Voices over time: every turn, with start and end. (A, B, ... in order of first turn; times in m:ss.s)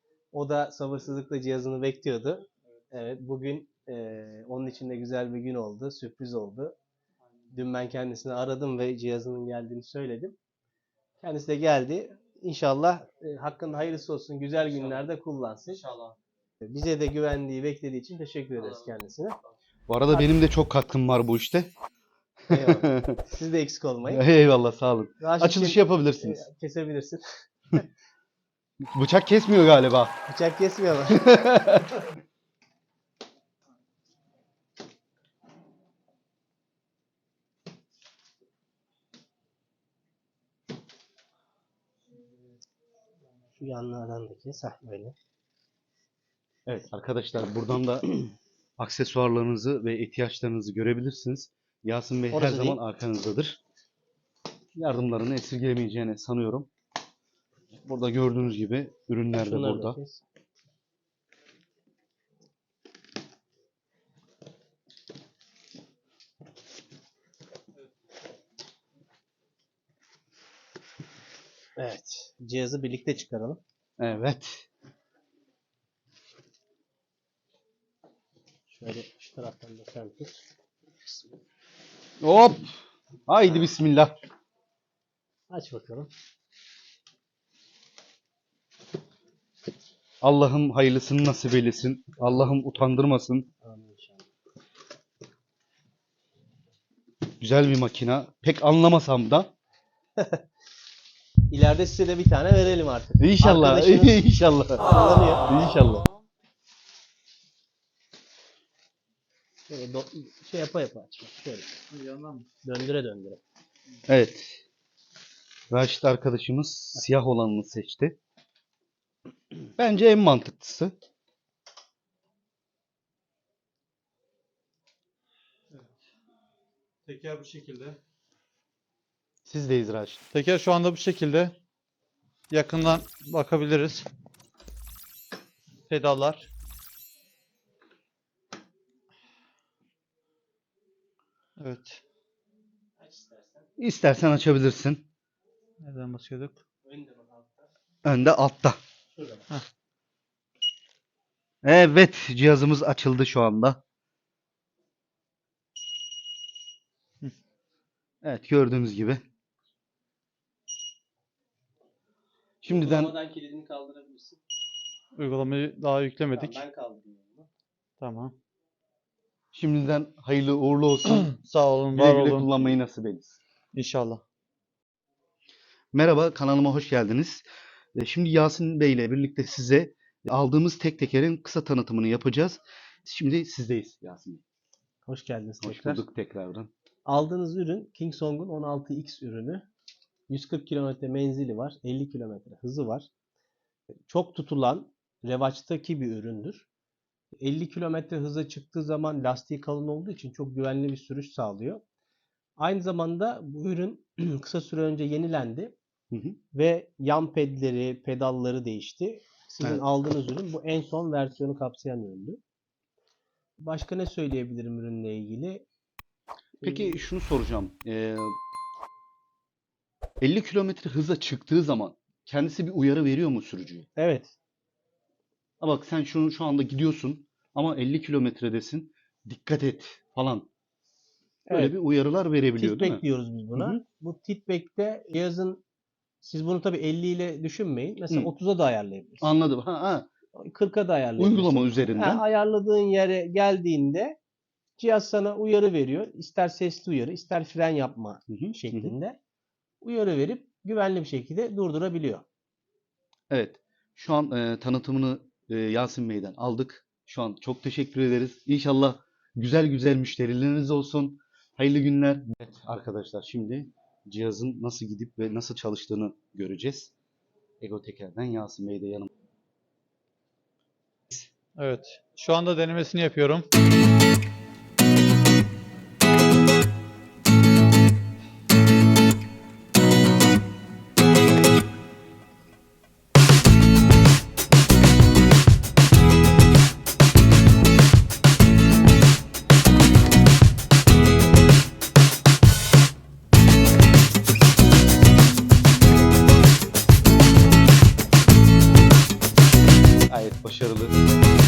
0:00.3-0:06.7 A
0:07.5-0:10.4 A
0:11.2-0:15.8 A
0:15.8-0:16.2 B
0:16.6-0:19.4 A
0:19.9-0:21.7 C
0:22.5-0:23.2 C
0:22.5-0:24.2 A
0:24.1-0:26.4 C
0:25.2-0:27.8 A
0:28.9-0:30.1 C
0:30.3-0:31.3 A
0:31.1-0:32.0 C
0:43.5-0:45.1 A
0:46.7-0:48.2 C
0:48.8-0:53.6 C
0:52.3-0:52.8 A
0:54.8-0:56.7 C
0:57.8-1:00.0 C
0:59.4-1:00.2 A
1:11.8-1:13.6 A
1:14.0-1:14.6 C
1:18.7-1:20.4 A
1:22.2-1:24.1 C
1:25.5-1:26.1 A
1:30.2-1:33.5 C
1:33.6-1:34.3 A
1:37.4-1:39.5 C
1:40.2-1:40.4 A
1:41.5-1:44.2 A
1:43.2-1:44.9 C
1:44.8-1:45.4 A
1:45.5-1:46.0 C
1:49.7-1:51.7 A
1:51.9-1:52.5 B
1:52.6-1:53.4 A
1:54.1-1:54.6 C
1:55.7-1:58.2 C
1:59.8-2:00.9 C
2:07.0-2:08.0 B
2:09.5-2:10.2 C
2:10.3-2:11.5 B
2:12.5-2:14.1 B
2:15.9-2:16.5 B
2:21.6-2:22.0 B
2:23.0-2:23.7 A
2:23.8-2:25.0 C
2:25.8-2:26.6 B
2:26.8-2:27.7 A
2:28.0-2:28.8 C
2:29.2-2:29.4 A
2:31.6-2:33.8 C
2:38.2-2:39.2 C
2:42.6-2:43.1 C
2:42.6-2:44.4 A
2:45.2-2:46.6 B
2:46.3-2:47.5 A
2:48.0-2:48.3 B
2:49.5-2:51.3 C
2:51.2-2:52.6 B
2:51.9-2:53.4 C
2:53.7-2:54.2 B
2:55.9-3:04.4 C
3:05.0-3:06.0 A
3:05.6-3:06.7 C
3:07.0-3:09.7 A
3:10.3-3:13.1 A
3:14.1-3:16.6 A
3:17.4-3:21.8 A
3:22.6-3:25.7 A
3:26.1-3:26.4 C
3:26.5-3:32.4 A
3:33.6-3:35.6 A
3:36.6-3:38.4 C
3:36.6-3:37.0 A
3:40.2-3:43.9 C
3:44.0-3:44.3 A
3:45.6-3:50.5 C
3:51.5-3:51.7 A
3:51.5-3:53.0 C
3:52.6-3:55.6 A
3:53.6-3:53.8 C
3:56.2-3:59.3 A
3:59.2-4:00.1 C
4:00.3-4:04.2 A
4:01.2-4:02.2 C
4:04.8-4:09.2 A
4:08.3-4:08.9 C
4:09.8-4:12.2 A
4:13.3-4:26.9 C
4:27.6-4:29.1 C
4:31.1-4:33.5 B
5:00.1-5:01.0 C